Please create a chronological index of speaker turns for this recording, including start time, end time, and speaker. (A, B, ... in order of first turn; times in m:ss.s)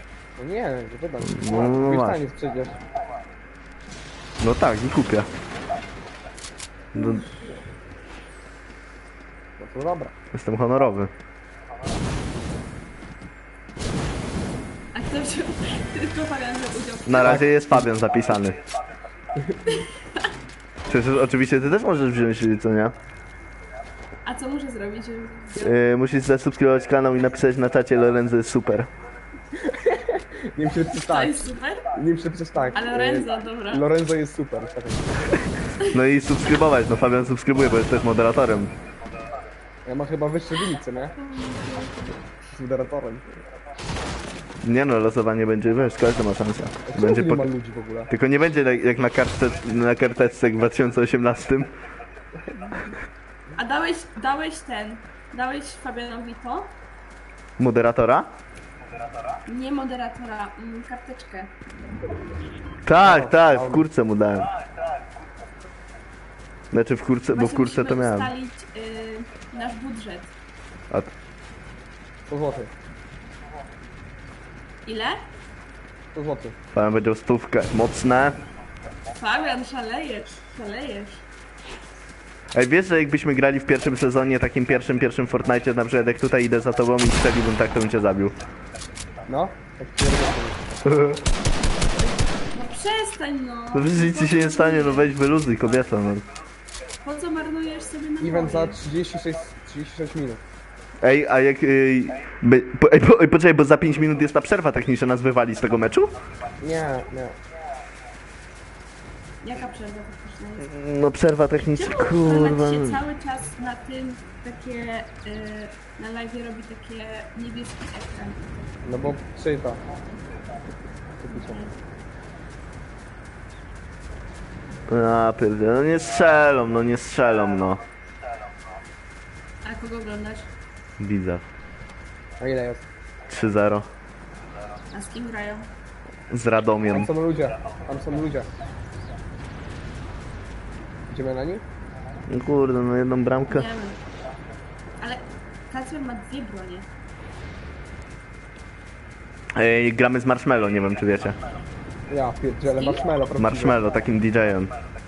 0:00.4-0:02.8 A
0:01.2-0:02.2 B
0:04.4-0:05.3 B
0:06.9-0:07.2 B
0:09.6-0:10.1 A
0:10.3-0:11.1 B
0:14.9-0:17.4 C
0:17.0-0:18.6 B
0:17.2-0:17.8 A
0:19.6-0:20.2 C
0:20.9-0:22.9 B
0:24.2-0:25.8 C
0:25.6-0:28.9 B
0:29.6-0:31.4 A
0:31.1-0:31.9 C
0:31.9-0:35.5 A
0:32.7-0:33.9 C
0:35.9-0:38.7 B
0:39.8-0:41.1 A
0:41.2-0:42.2 C
0:42.5-0:43.2 A
0:44.6-0:47.5 B
0:46.9-0:48.1 A
0:48.1-0:51.7 B
0:53.5-0:56.7 C
0:57.6-0:58.3 B
0:59.4-1:01.5 C
1:02.8-1:04.5 B
1:03.0-1:03.8 A
1:06.7-1:08.3 B
1:07.3-1:10.3 C
1:12.3-1:12.7 A
1:14.8-1:15.3 C
1:16.1-1:16.6 A
1:16.7-1:18.4 B
1:19.1-1:21.2 C
1:22.5-1:28.4 B
1:29.3-1:30.6 A
1:30.8-1:31.2 B
1:32.5-1:35.1 C
1:33.7-1:36.2 B
1:37.0-1:38.8 C
1:38.2-1:40.4 A
1:41.0-1:46.1 B
1:46.6-1:47.4 A
1:49.4-1:50.7 C
1:50.6-1:53.0 B
1:51.7-1:58.7 C
1:58.8-1:59.8 A
2:01.2-2:01.6 A
2:01.3-2:01.7 C
2:04.9-2:07.8 B
2:09.6-2:10.5 C
2:11.0-2:11.4 B
2:12.4-2:12.9 A
2:13.3-2:13.9 B
2:14.9-2:15.7 C
2:16.3-2:17.1 B
2:16.9-2:18.5 A
2:21.1-2:21.6 A
2:22.3-2:23.7 B
2:23.5-2:24.0 C
2:25.0-2:26.9 C
2:29.5-2:31.4 B
2:32.1-2:33.8 A
2:32.7-2:33.0 C
2:33.4-2:34.7 B